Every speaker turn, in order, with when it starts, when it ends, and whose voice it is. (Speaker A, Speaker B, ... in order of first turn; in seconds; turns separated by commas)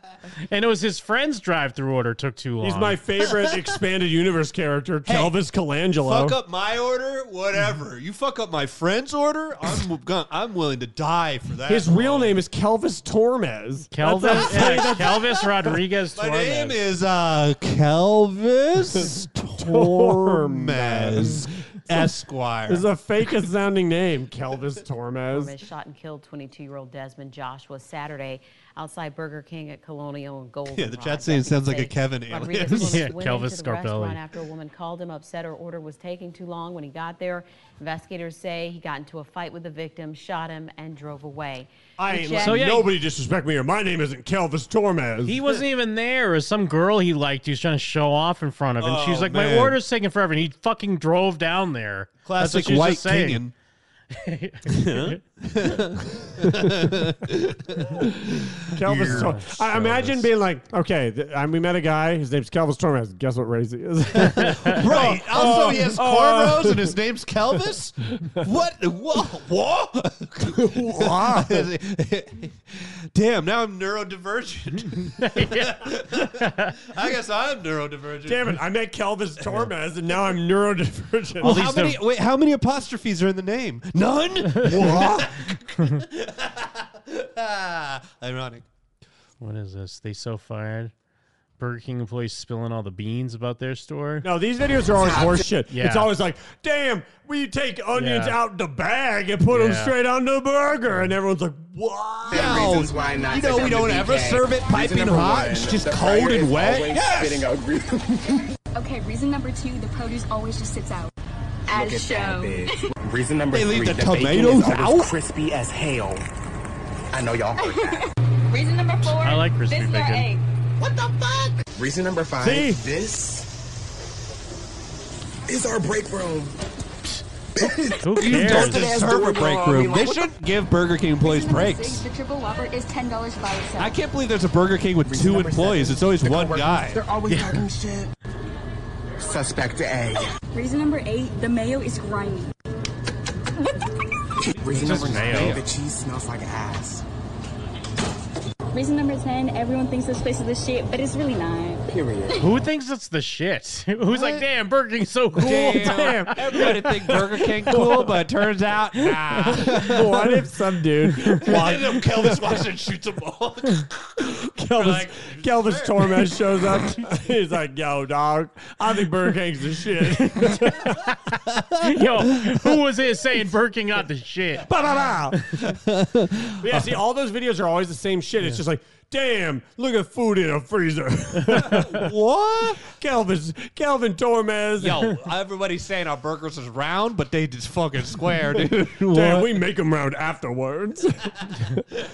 Speaker A: 0.5-3.0, Speaker B: 2.6-6.3, Speaker C: 5.0-5.3, Speaker C: 6.0-12.4, Speaker B: 11.7-15.4, Speaker A: 13.9-16.8, Speaker C: 14.2-15.2, Speaker C: 16.1-22.9, Speaker B: 19.6-21.9, Speaker B: 22.7-25.5, Speaker D: 25.3-42.7, Speaker C: 30.7-33.1, Speaker A: 32.7-34.2, Speaker B: 42.0-45.4, Speaker A: 42.4-42.9, Speaker A: 45.2-53.4, Speaker C: 48.8-49.8, Speaker C: 52.2-53.5, Speaker A: 54.1-55.2, Speaker C: 54.7-59.5, Speaker B: 58.7-66.9, Speaker A: 59.0-60.3, Speaker C: 64.2-78.6, Speaker A: 64.4-64.8, Speaker B: 70.4-71.7, Speaker A: 75.1-76.7, Speaker B: 78.2-81.6, Speaker C: 81.4-88.6, Speaker A: 81.4-82.0, Speaker A: 84.5-85.0, Speaker B: 84.6-85.4, Speaker A: 89.4-90.9, Speaker A: 91.6-94.3, Speaker B: 94.2-102.7, Speaker E: 94.9-95.5, Speaker A: 95.7-96.1, Speaker A: 97.9-98.4, Speaker A: 99.5-99.9, Speaker E: 102.3-108.4, Speaker C: 102.3-107.5, Speaker F: 108.7-111.1, Speaker F: 111.7-112.8, Speaker E: 111.7-116.2, Speaker C: 113.5-115.1, Speaker E: 117.1-118.0, Speaker F: 117.6-120.4, Speaker A: 119.2-120.3, Speaker E: 120.8-123.5, Speaker B: 122.4-122.8, Speaker E: 125.5-126.6, Speaker E: 127.5-130.3, Speaker A: 128.0-128.9, Speaker C: 128.2-132.1, Speaker F: 131.2-134.0, Speaker C: 133.8-137.0, Speaker E: 135.0-138.1, Speaker A: 137.3-137.6, Speaker E: 139.2-140.2, Speaker F: 140.5-142.5, Speaker E: 144.4-147.0, Speaker C: 144.7-145.6, Speaker A: 144.7-145.6, Speaker F: 148.7-152.4, Speaker E: 151.9-152.3, Speaker A: 152.4-157.4, Speaker C: 154.1-154.4, Speaker C: 155.3-160.4, Speaker B: 159.8-162.6, Speaker A: 161.3-161.6, Speaker C: 161.4-163.9, Speaker B: 164.2-170.9, Speaker C: 164.7-166.3, Speaker A: 170.2-174.7, Speaker B: 174.7-175.4, Speaker C: 175.7-176.8, Speaker B: 176.6-182.1, Speaker C: 181.7-182.8, Speaker B: 182.8-185.1, Speaker C: 184.8-189.5, Speaker B: 189.1-191.8